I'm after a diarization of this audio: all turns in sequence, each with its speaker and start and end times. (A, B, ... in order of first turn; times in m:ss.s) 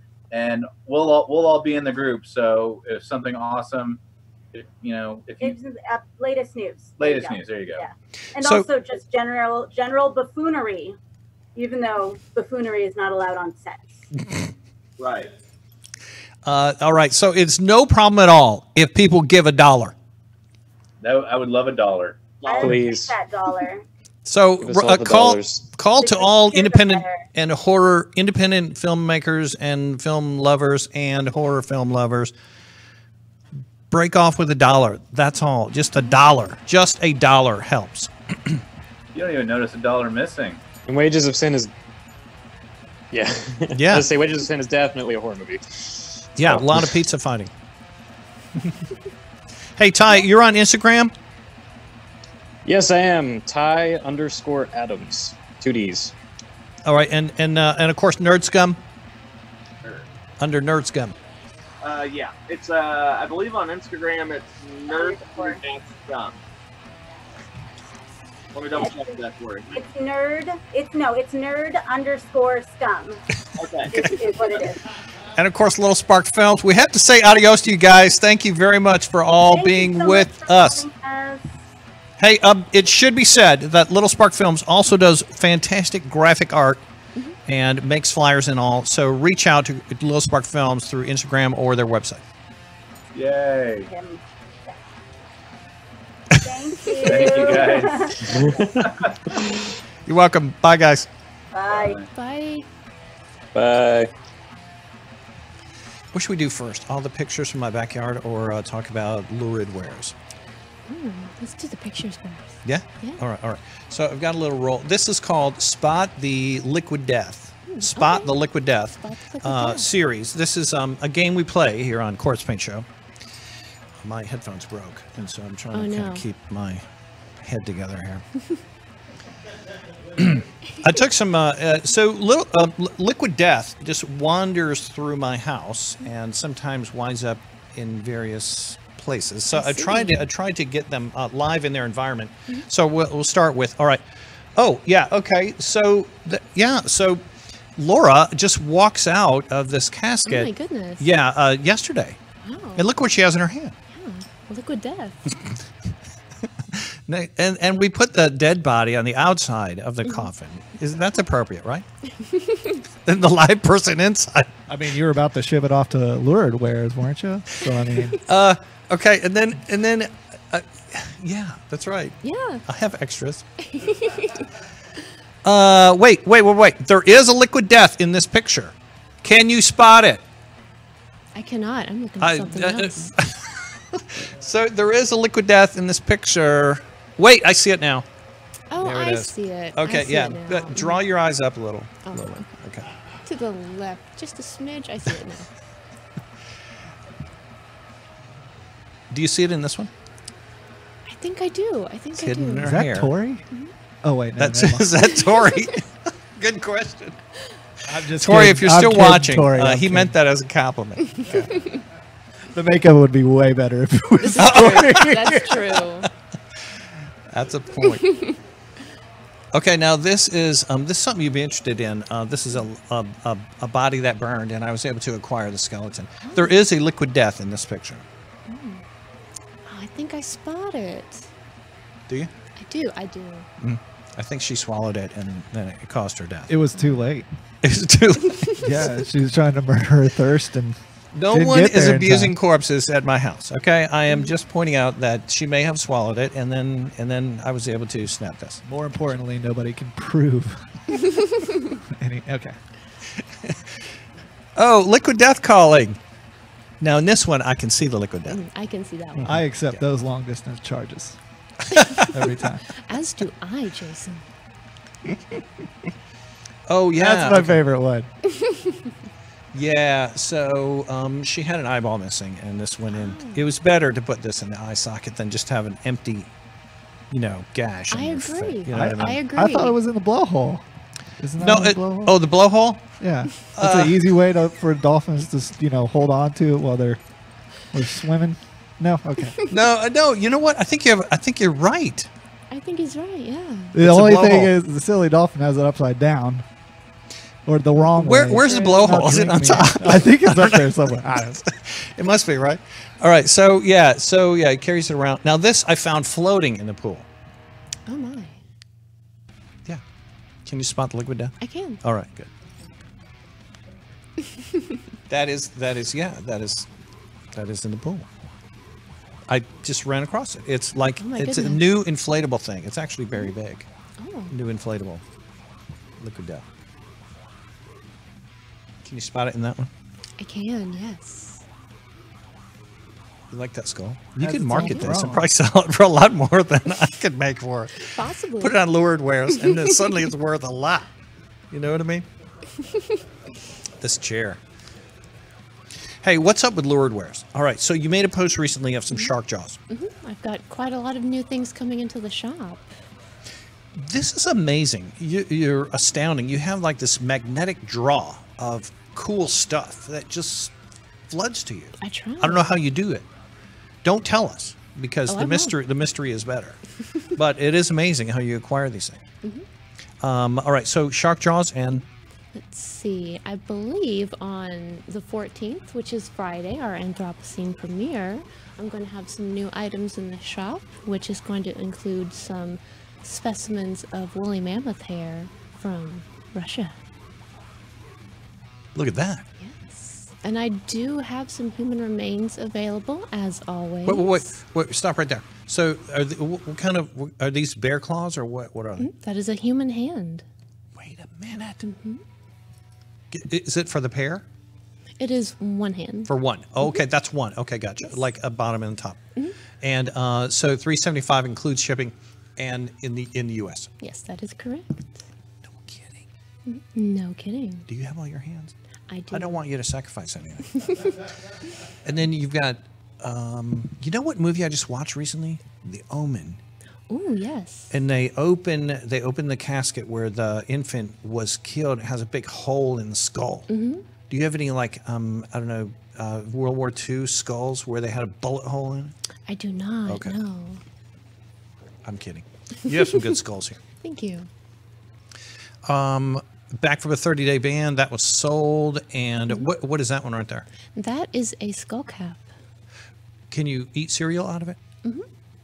0:00.3-0:04.0 A
0:04.5-0:05.6 A
0:05.4-0:11.0 B
0:07.0-0:07.8 A
0:08.4-0:08.6 C
0:11.5-0:14.0 B
0:15.0-0:15.3 D
0:16.4-0:19.9 C
0:21.0-0:22.2 A
0:22.4-0:22.9 D
0:22.4-0:23.8 B
0:22.6-0:23.1 E
0:24.2-0:32.3 C
0:24.6-0:25.6 E
0:26.0-0:27.2 B
0:33.9-0:38.6 C
0:39.1-0:40.6 A
0:40.9-0:41.7 E
0:43.1-0:46.9 E
0:43.7-0:44.1 C
0:46.4-0:47.5 C
0:49.8-0:51.1 C
0:52.6-0:56.1 E
0:56.8-0:58.8 C
0:59.8-1:00.1 D
1:00.4-1:01.2 C
1:01.8-1:06.4 D
1:04.9-1:05.6 B
1:08.5-1:09.8 D
1:08.8-1:09.2 B
1:09.7-1:13.2 B
1:13.6-1:14.7 D
1:13.9-1:14.8 B
1:15.3-1:20.8 C
1:19.5-1:21.6 B
1:22.2-1:26.9 C
1:27.4-1:32.2 C
1:33.1-1:33.9 A
1:33.8-1:34.7 B
1:36.4-1:38.5 B
1:37.0-1:39.2 A
1:38.2-1:38.9 E
1:40.0-1:41.1 C
1:41.5-1:42.0 B
1:41.7-1:42.1 A
1:42.1-1:42.7 F
1:43.5-1:44.1 E
1:46.1-1:50.1 C
1:50.9-1:53.2 F
1:52.6-2:02.9 C
1:57.7-1:58.4 F
1:59.0-1:59.9 F
2:04.0-2:06.8 C
2:05.7-2:06.2 F
2:07.4-2:08.2 C
2:10.1-2:24.0 C
2:19.5-2:20.2 F
2:24.6-2:27.2 C
2:27.8-2:32.2 C
2:30.2-2:31.1 F
2:32.4-2:32.8 F
2:32.7-2:33.8 C
2:33.9-2:35.4 F
2:36.7-2:41.9 C
2:42.2-2:42.8 F
2:43.0-2:44.6 C
2:44.7-2:48.2 G
2:48.2-2:53.4 C
2:52.2-2:52.6 F
2:53.6-2:54.5 F
2:55.4-3:00.2 C
3:01.3-3:03.1 F
3:02.2-3:08.0 C
3:08.7-3:11.0 F
3:08.8-3:12.9 C
3:12.0-3:12.5 F
3:13.2-3:15.5 F
3:19.1-3:19.9 C
3:21.0-3:22.7 F
3:22.1-3:23.1 C
3:22.6-3:23.5 G
3:24.0-3:24.9 G
3:24.4-3:27.2 C
3:25.2-3:25.8 F
3:27.9-3:30.1 G
3:28.2-3:31.5 C
3:31.2-3:31.8 F
3:32.5-3:35.6 G
3:34.2-3:36.1 F
3:34.3-3:36.6 C
3:37.3-3:38.2 C
3:37.8-3:38.3 F
3:39.5-3:48.1 C
3:46.2-3:46.5 F
3:48.5-3:48.8 F
3:49.6-3:51.3 F
3:52.6-3:53.5 F
3:53.6-3:56.5 C
3:56.5-3:57.3 G
3:56.7-3:57.1 F
3:57.6-3:58.6 C
3:58.3-3:58.9 F
3:58.6-4:02.3 G
4:01.1-4:08.6 C
4:08.6-4:11.4 G
4:11.0-4:11.3 F
4:11.9-4:12.6 G
4:13.2-4:13.8 C
4:14.6-4:16.0 C
4:16.8-4:18.4 C
4:18.2-4:19.2 F
4:19.2-4:19.8 C
4:19.2-4:21.2 G
4:21.6-4:22.4 C
4:22.1-4:22.6 G
4:22.7-4:24.3 F
4:25.1-4:25.4 C
4:26.7-4:27.6 C
4:27.0-4:28.1 G
4:28.3-4:28.9 F
4:29.5-4:36.3 C
4:32.9-4:33.4 F
4:37.1-4:39.2 C
4:37.9-4:39.8 F
4:38.7-4:40.6 G
4:41.2-4:42.3 G
4:41.4-4:44.0 C
4:43.0-4:47.0 G
4:47.6-4:49.4 G
4:49.5-4:52.1 C
4:52.5-4:53.8 F
4:53.7-4:56.4 G
4:53.8-4:54.5 C
4:57.4-5:01.4 G
4:57.9-5:07.1 C
4:58.3-4:58.8 F
5:07.9-5:08.4 F
5:10.4-5:12.3 C
5:11.4-5:11.8 F
5:14.3-5:14.7 F
5:15.1-5:16.7 C
5:17.3-5:18.1 C
5:19.3-5:23.7 C
5:21.0-5:21.6 F
5:24.0-5:24.3 F
5:24.3-5:25.0 C
5:26.0-5:26.4 C
5:28.8-5:29.7 C
5:30.2-5:31.4 F
5:33.3-5:40.9 C
5:34.2-5:35.3 G
5:34.6-5:35.1 F
5:37.8-5:38.6 F
5:39.3-5:39.9 F
5:41.5-5:42.1 C
5:42.6-5:42.9 F
5:43.8-5:44.4 C
5:46.0-5:49.6 C
5:49.7-5:52.7 F
5:53.7-6:00.5 C
6:01.1-6:03.0 C
6:01.8-6:02.5 F
6:03.8-6:09.0 C
6:05.1-6:05.5 F
6:10.0-6:11.9 C
6:12.3-6:26.7 F
6:28.7-6:29.2 C
6:29.4-6:34.4 F
6:33.8-6:38.9 C
6:38.8-6:40.2 F
6:40.7-6:41.6 C
6:41.6-6:42.0 F
6:43.1-6:44.2 C
6:45.0-6:46.8 F
6:46.1-6:49.0 C
6:49.6-6:53.7 C
6:53.8-6:55.0 F
6:55.4-6:56.0 C
6:56.4-6:57.7 F
6:57.7-6:58.5 C
6:58.9-6:59.4 F
6:59.1-7:01.1 C
7:00.6-7:00.9 F
7:01.8-7:06.4 C
7:06.9-7:07.7 F
7:07.7-7:13.5 C
7:13.5-7:13.8 F
7:14.1-7:18.9 C
7:19.3-7:20.6 F
7:19.8-7:20.2 C
7:21.8-7:23.6 C
7:22.7-7:23.0 F
7:23.8-7:24.3 F
7:25.6-7:30.5 C
7:30.7-7:32.3 F
7:33.3-7:34.6 C